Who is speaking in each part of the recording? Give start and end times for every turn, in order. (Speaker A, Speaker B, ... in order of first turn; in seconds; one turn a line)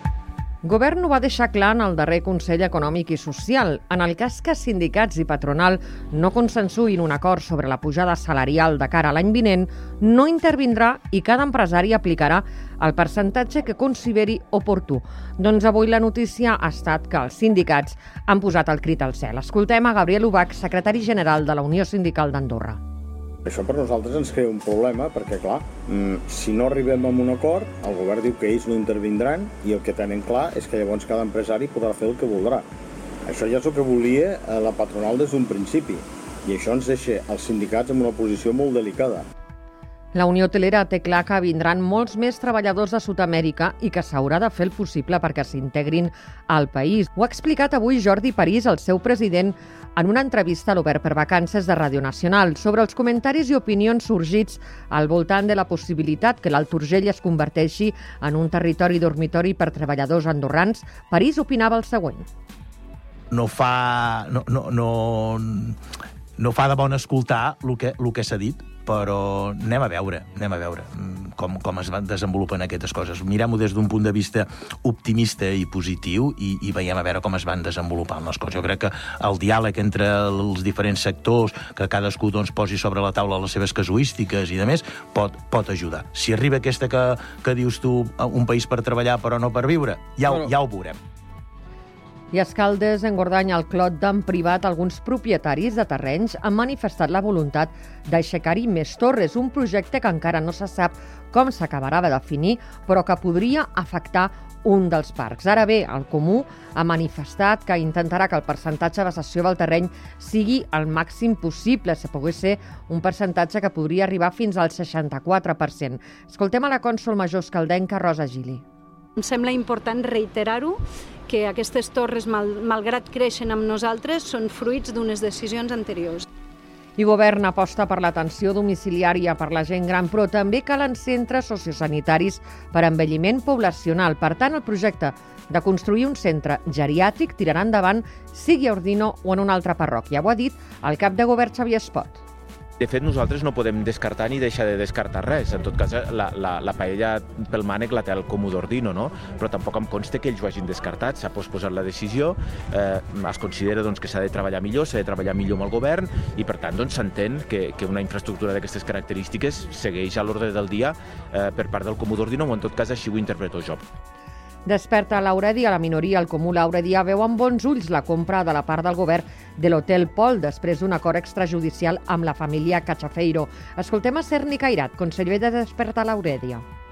Speaker A: 0.6-22.8
Speaker B: 23.5-32.7
Speaker B: 33.3-39.3
Speaker A: 40.1-62.3
Speaker C: 63.3-65.8
Speaker C: 66.4-91.0
Speaker A: 92.3-118.7
Speaker D: 119.2-126.3
Speaker A: 127.0-142.2
Speaker E: 142.8-163.8
Speaker A: 164.7-176.6